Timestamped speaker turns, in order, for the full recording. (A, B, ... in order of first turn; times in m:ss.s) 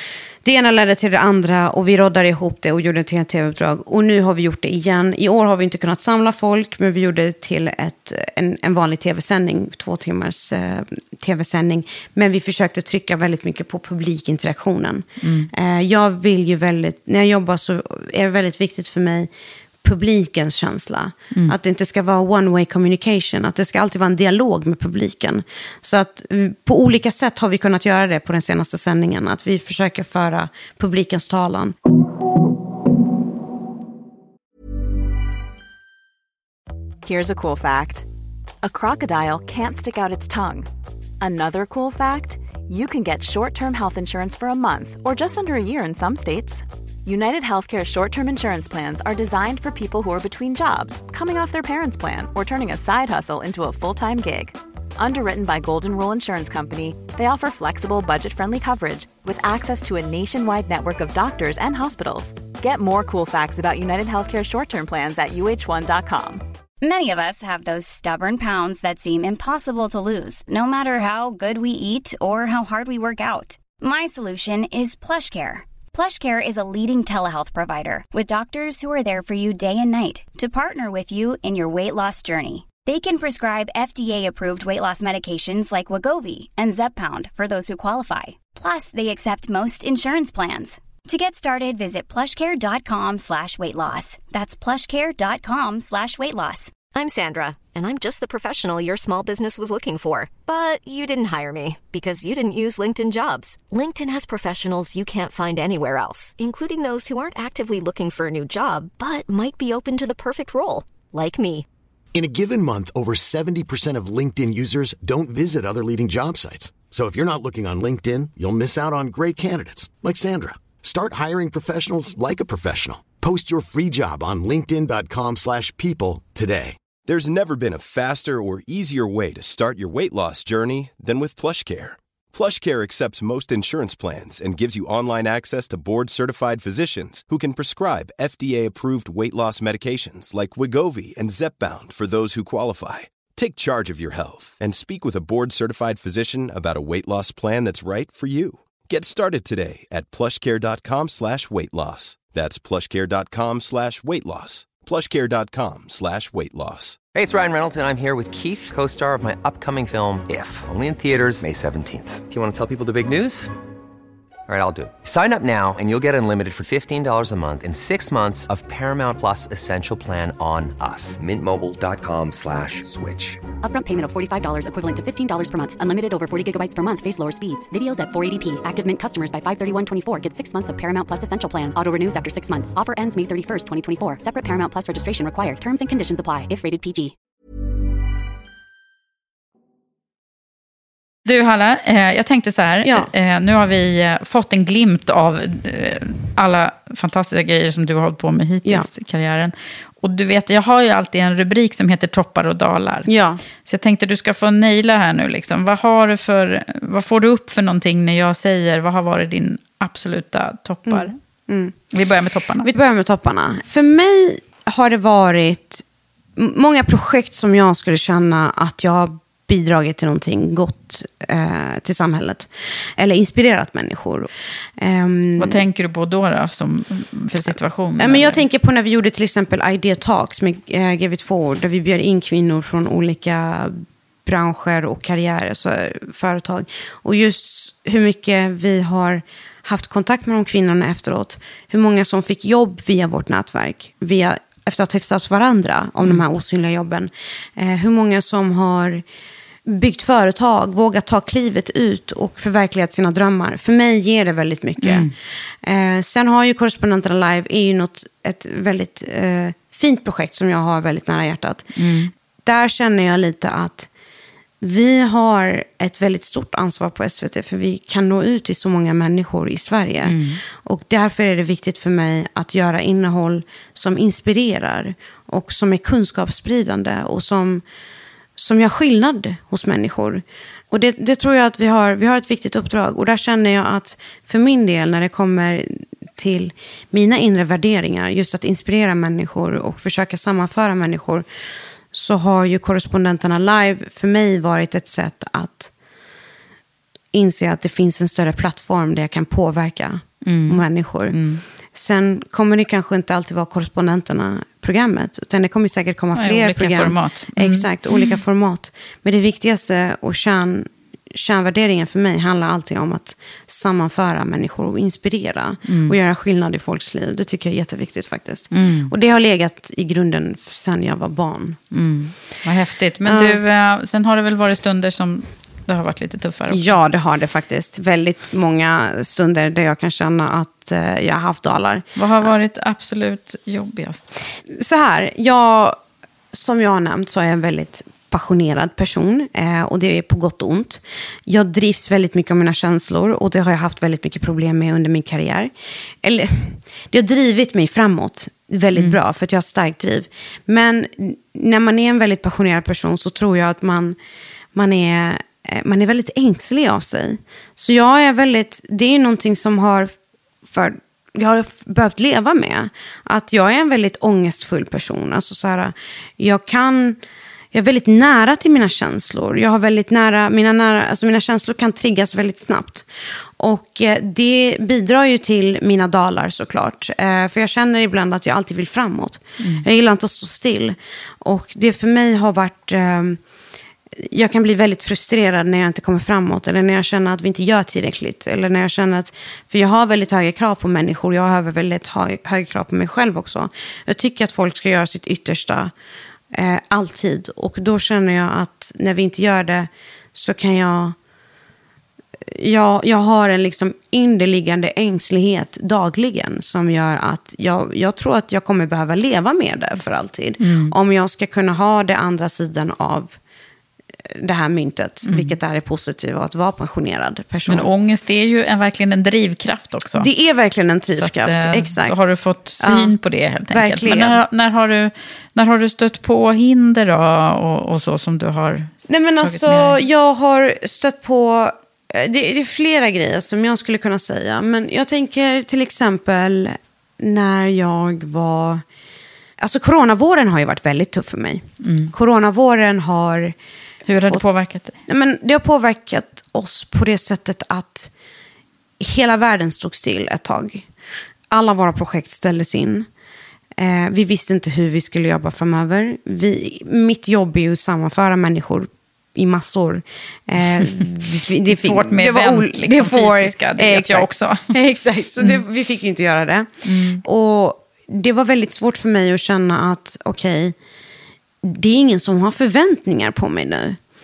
0:00.4-0:19.3 A
0:15.2-0:15.5 B
0:19.8-0:31.7 A
0:37.0-0:38.0 C
0:38.6-0:40.7 C
0:41.2-1:06.4 C
1:06.8-1:36.8 D
1:36.9-1:51.6 E
1:52.1-2:06.8 F
2:07.0-2:37.0 G
2:37.1-2:43.5 H
2:44.5-2:53.4 H
2:53.6-3:07.1 I
3:11.2-3:31.1 B
3:12.8-3:13.1 A
3:23.1-3:23.4 A
3:30.9-3:31.8 A
3:31.9-3:32.7 B
3:32.6-3:35.8 A
3:36.4-3:45.6 A
3:45.4-3:48.4 B
3:48.0-4:09.0 A
4:09.6-4:21.8 A
4:14.8-4:15.1 B
4:21.8-4:22.1 B
4:22.4-4:23.9 A
4:24.6-4:37.6 A
4:30.0-4:30.4 B
4:38.4-4:51.2 A
4:51.9-4:55.7 A
4:57.1-5:01.2 A
5:00.2-5:01.4 B
5:01.7-5:21.6 A
5:06.2-5:07.6 B
5:15.7-5:15.9 B
5:18.5-5:18.9 B
5:21.7-5:26.8 B
5:23.0-5:23.4 A
5:26.5-5:32.3 A
5:32.0-5:34.2 B
5:34.5-5:35.8 A
5:36.3-5:45.5 A
5:46.0-5:54.0 A
5:54.5-5:59.9 A
6:00.4-6:07.0 A
6:07.5-6:12.9 A
6:13.4-6:23.2 A
6:19.4-6:19.6 B
6:24.0-6:35.7 A
6:36.3-6:40.9 A
6:42.3-6:53.2 A
6:50.4-6:50.7 B
6:54.1-6:57.7 A
6:55.0-6:55.4 B
6:57.5-7:00.1 B
7:00.0-7:02.0 A
7:01.0-7:09.8 B
7:02.6-7:03.0 A
7:03.5-7:04.2 A
7:08.9-7:18.6 A
7:19.4-7:23.3 A
7:21.6-7:21.9 B
7:23.8-7:24.8 B
7:24.9-7:27.9 A
7:28.8-7:30.7 A
7:31.3-7:32.9 A
7:33.6-7:50.5 A
7:40.6-7:40.8 B
7:41.4-7:44.4 B
7:46.6-7:47.0 B
7:51.4-7:53.8 A